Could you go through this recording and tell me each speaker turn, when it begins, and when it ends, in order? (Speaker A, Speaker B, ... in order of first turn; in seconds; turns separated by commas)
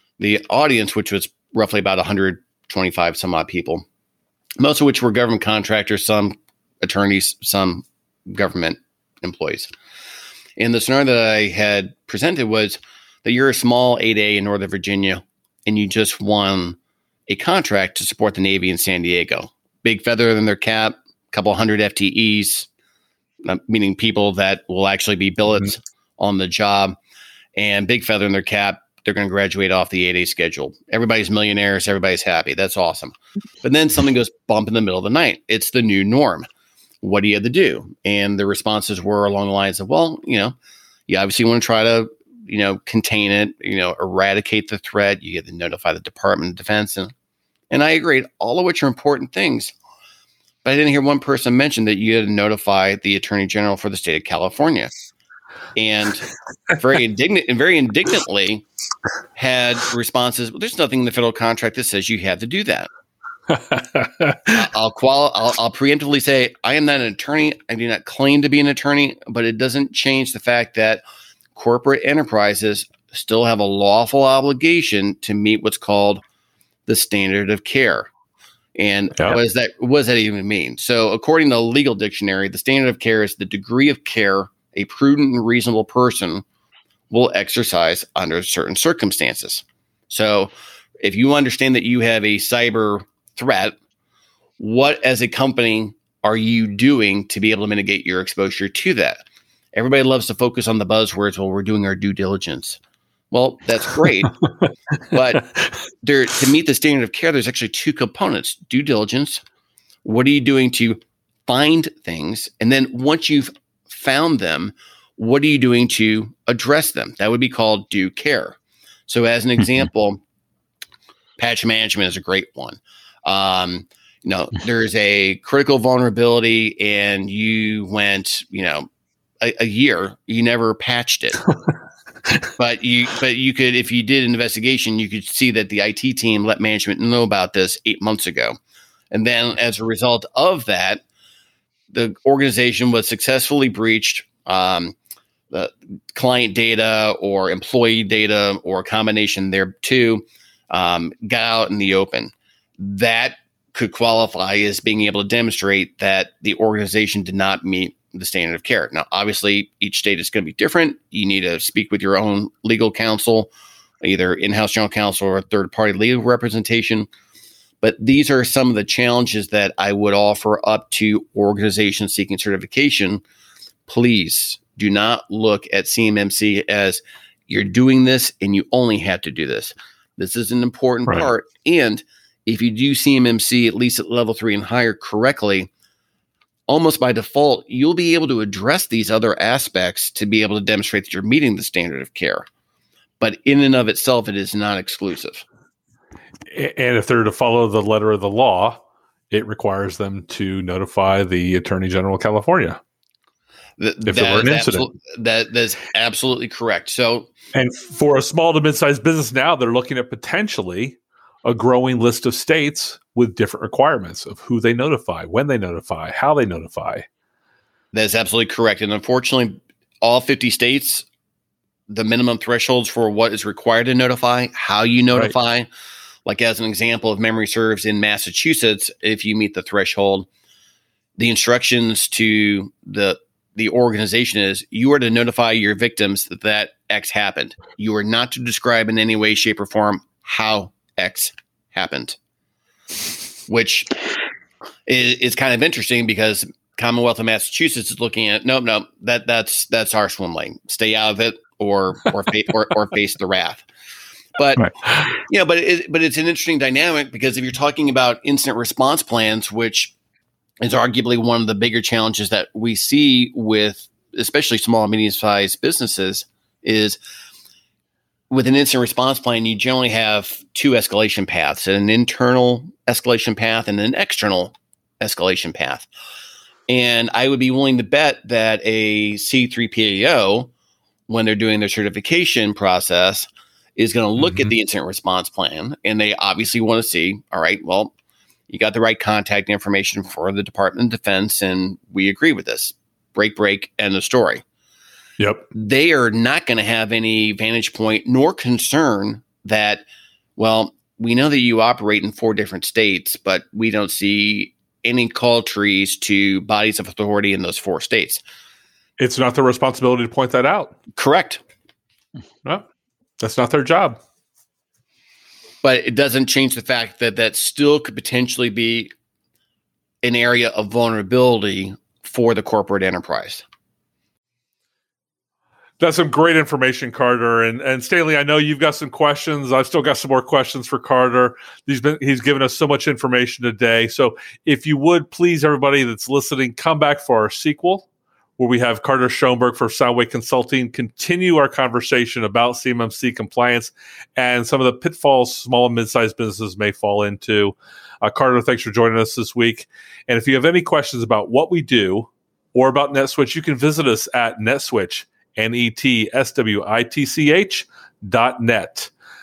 Speaker A: 0.2-3.8, Speaker A: 4.6-9.7, Speaker A: 10.6-22.7, Speaker A: 23.4-26.9, Speaker A: 27.6-36.4, Speaker A: 37.0-40.5, Speaker A: 41.1-47.1, Speaker A: 47.7-49.7, Speaker A: 50.6-54.9, Speaker A: 55.7-58.6, Speaker A: 59.3-62.9, Speaker B: 63.5-64.5, Speaker A: 64.5-71.0, Speaker A: 71.5-76.2, Speaker A: 76.9-78.1, Speaker A: 78.8-86.4, Speaker A: 87.1-90.5, Speaker A: 91.0-93.7, Speaker A: 94.6-99.2, Speaker A: 99.7-102.8, Speaker A: 103.3-104.4, Speaker A: 105.1-105.5, Speaker A: 106.0-109.4, Speaker A: 110.0-120.2, Speaker A: 121.4-128.8, Speaker A: 129.4-131.4, Speaker A: 132.6-138.6, Speaker A: 139.1-141.0, Speaker A: 141.9-144.9, Speaker A: 145.5-163.5, Speaker A: 164.0-167.1, Speaker A: 167.8-173.2, Speaker A: 173.9-185.7, Speaker A: 186.7-192.5, Speaker A: 193.2-195.4, Speaker B: 196.5-202.8, Speaker A: 203.8-207.3, Speaker B: 204.1-204.8, Speaker B: 207.5-217.1, Speaker A: 217.9-221.1, Speaker A: 221.9-225.7, Speaker A: 226.2-230.3, Speaker A: 231.2-242.2, Speaker A: 243.5-243.9, Speaker A: 244.9-253.7, Speaker A: 254.4-254.7, Speaker B: 254.6-255.1, Speaker A: 255.2-259.9, Speaker A: 260.6-267.0, Speaker A: 268.3-275.9, Speaker A: 276.7-280.5, Speaker A: 281.1-287.9, Speaker B: 284.2-284.5, Speaker A: 288.5-294.4, Speaker B: 295.2-295.4, Speaker A: 295.5-299.8, Speaker A: 300.4-308.2, Speaker B: 309.0-310.7, Speaker A: 310.9-311.4, Speaker B: 313.2-314.0, Speaker A: 315.6-318.9, Speaker A: 320.0-323.4, Speaker B: 325.8-337.9, Speaker B: 338.4-358.9